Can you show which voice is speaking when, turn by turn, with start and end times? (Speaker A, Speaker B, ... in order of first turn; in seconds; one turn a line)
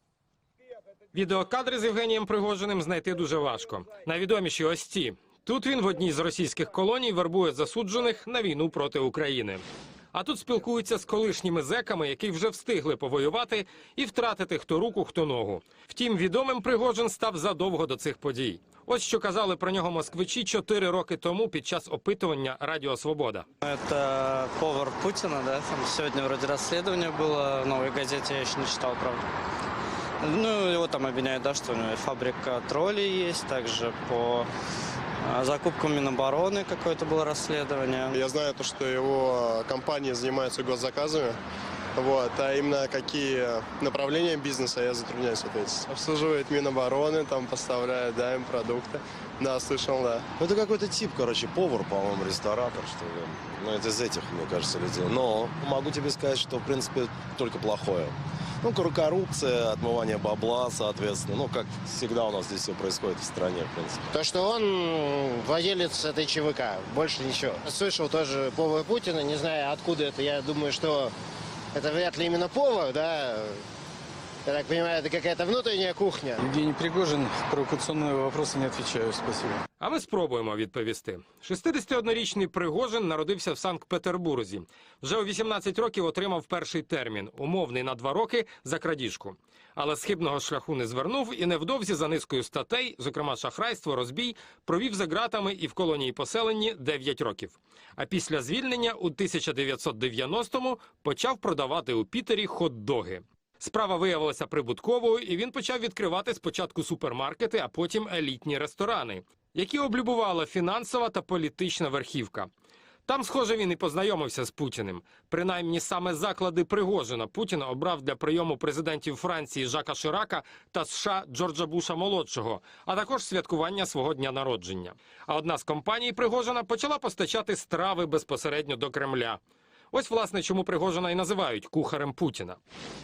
Speaker A: 1.1-9.6
Speaker A: 10.1-23.5
Speaker B: 23.6-29.2
Speaker B: 30.2-34.5
Speaker B: 35.2-38.2
Speaker C: 38.1-41.4
Speaker C: 41.9-50.3
Speaker D: 50.4-64.1
Speaker E: 64.1-71.1
Speaker E: 71.7-73.6
Speaker E: 74.4-76.4
Speaker F: 76.4-79.6
Speaker A: 79.8-112.5
Speaker A: 113.0-129.4
Speaker A: 129.9-132.6